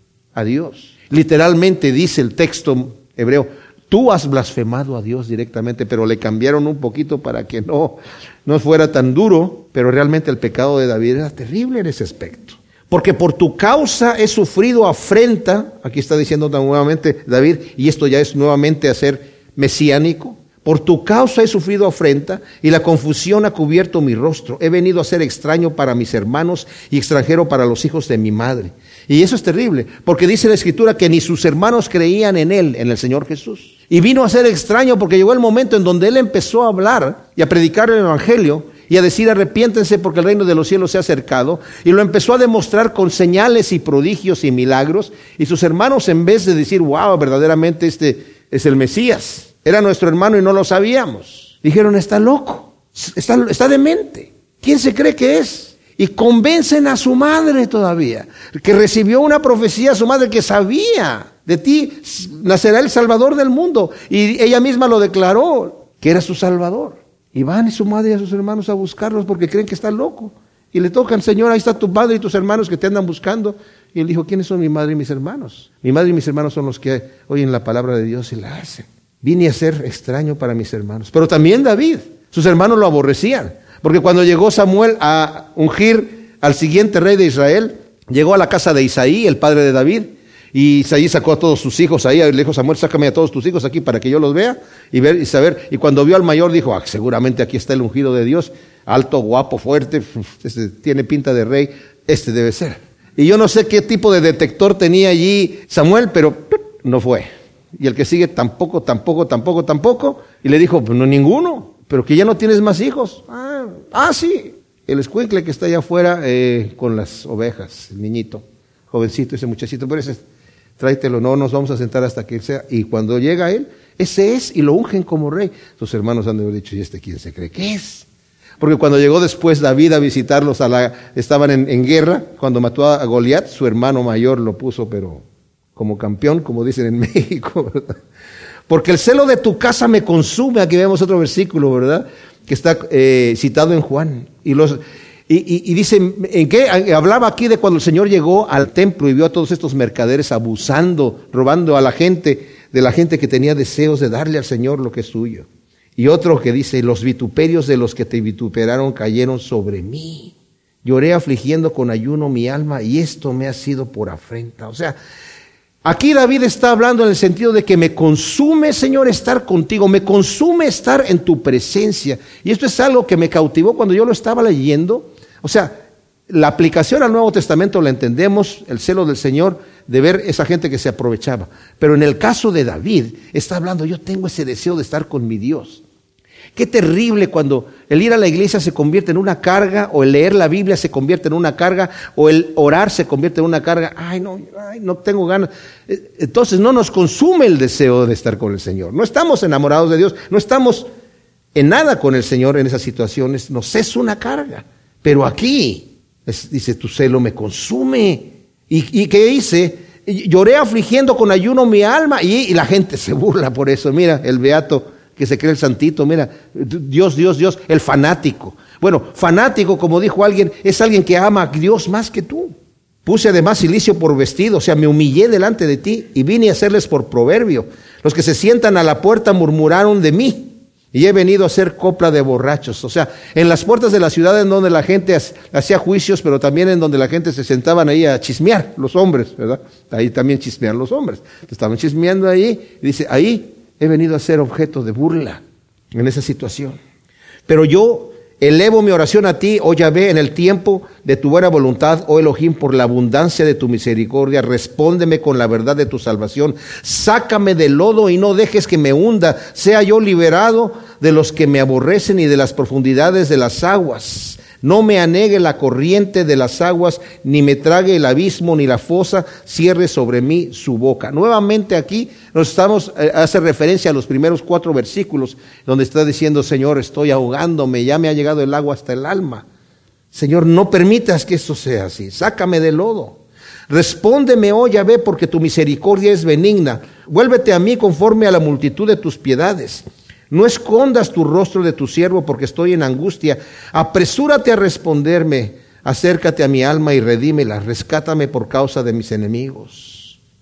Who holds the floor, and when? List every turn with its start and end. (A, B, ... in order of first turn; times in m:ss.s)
0:00.4-2:00.2 A
2:00.8-2:08.1 A
2:08.6-2:17.9 A
2:18.7-2:45.0 A
2:45.8-2:55.8 A
2:56.3-3:05.8 A
3:06.5-3:20.9 A
3:21.5-3:42.5 A
3:43.0-4:05.4 A
4:05.9-4:06.8 A
4:07.5-4:39.5 A
4:40.1-5:00.2 A